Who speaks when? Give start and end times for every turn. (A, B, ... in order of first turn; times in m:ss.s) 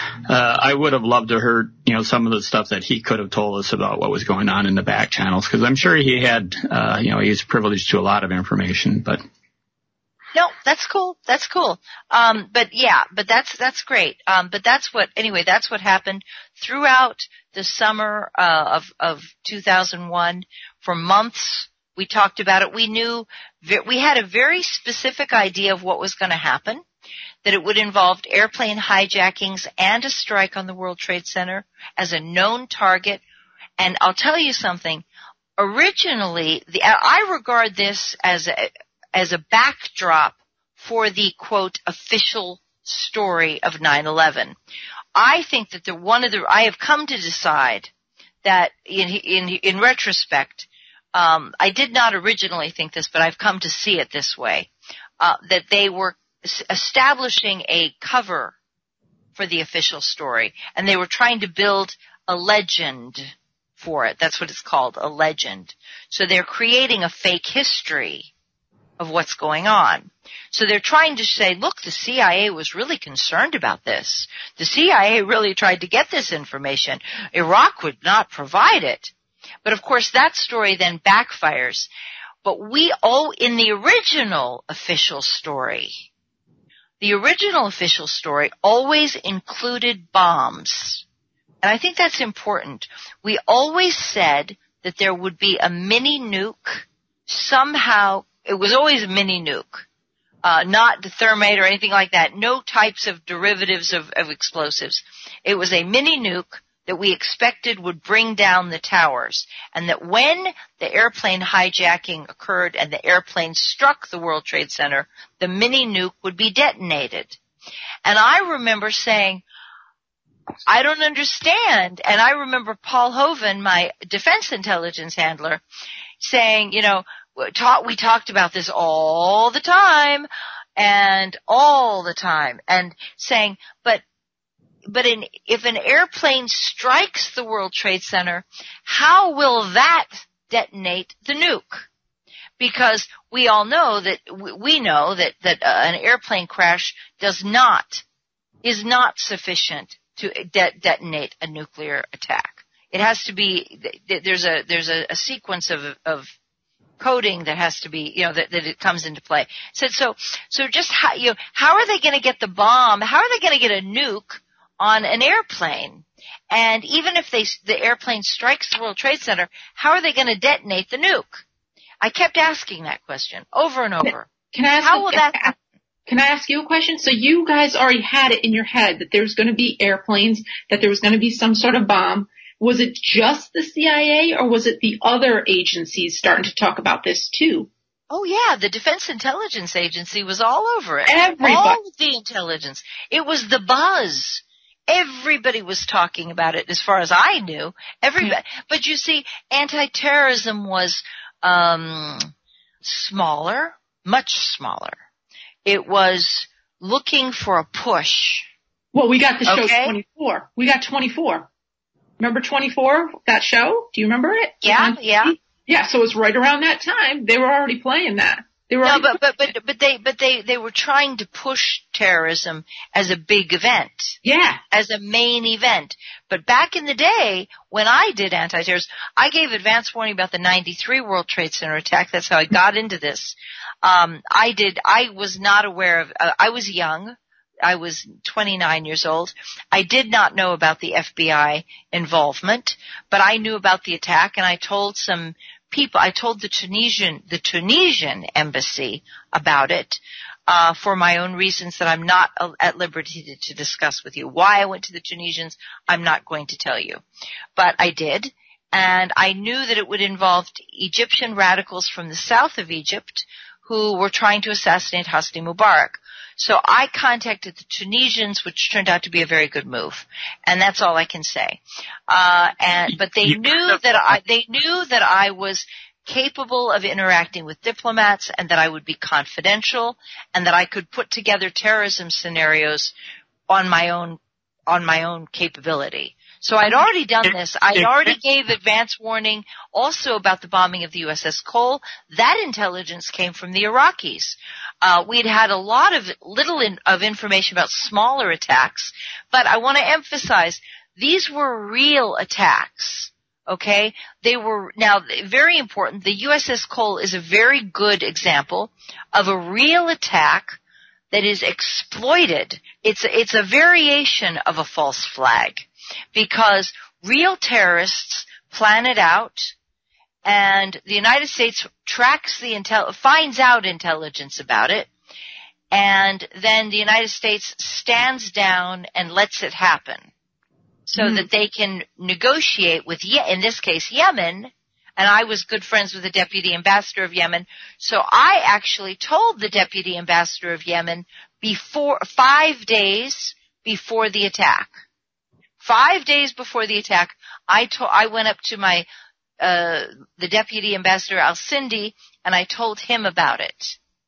0:00.3-0:09.2 A
0:10.3-0:26.8 B
0:27.4-0:33.2 B
0:33.8-0:35.0 B
0:35.6-0:44.5 B
0:45.1-0:47.9 B
0:48.4-0:58.5 B
0:59.4-1:08.3 B
1:09.0-1:19.1 B
1:19.6-1:21.9 B
1:22.4-1:26.0 B
1:27.0-1:31.0 B
1:31.6-1:39.8 B
1:40.4-1:57.4 B
1:58.0-1:59.4 B
2:00.6-2:05.6 B
2:06.2-2:14.0 B
2:14.9-2:21.9 B
2:22.6-2:28.0 B
2:28.6-2:36.3 B
2:37.0-2:51.4 B
2:52.0-2:54.3 B
2:54.0-2:55.5 C
2:54.8-2:55.6 B
2:56.1-3:07.7 C
3:08.1-3:22.3 B
3:11.0-3:11.8 C
3:22.8-3:25.0 B
3:25.6-3:28.5 B
3:28.9-3:31.5 C
3:29.4-3:30.0 B
3:32.2-3:39.2 C
3:34.6-3:35.4 B
3:38.8-3:44.2 B
3:44.2-3:44.6 C
3:44.7-4:17.0 B
4:17.6-4:42.9 B
4:33.2-4:34.2 A
4:43.5-5:10.6 B
4:47.7-4:48.1 A
5:11.1-5:19.5 B
5:20.2-5:24.9 B
5:25.7-5:30.1 B
5:30.9-5:44.7 B
5:31.0-5:31.3 C
5:45.6-5:48.8 B
5:49.4-5:53.8 B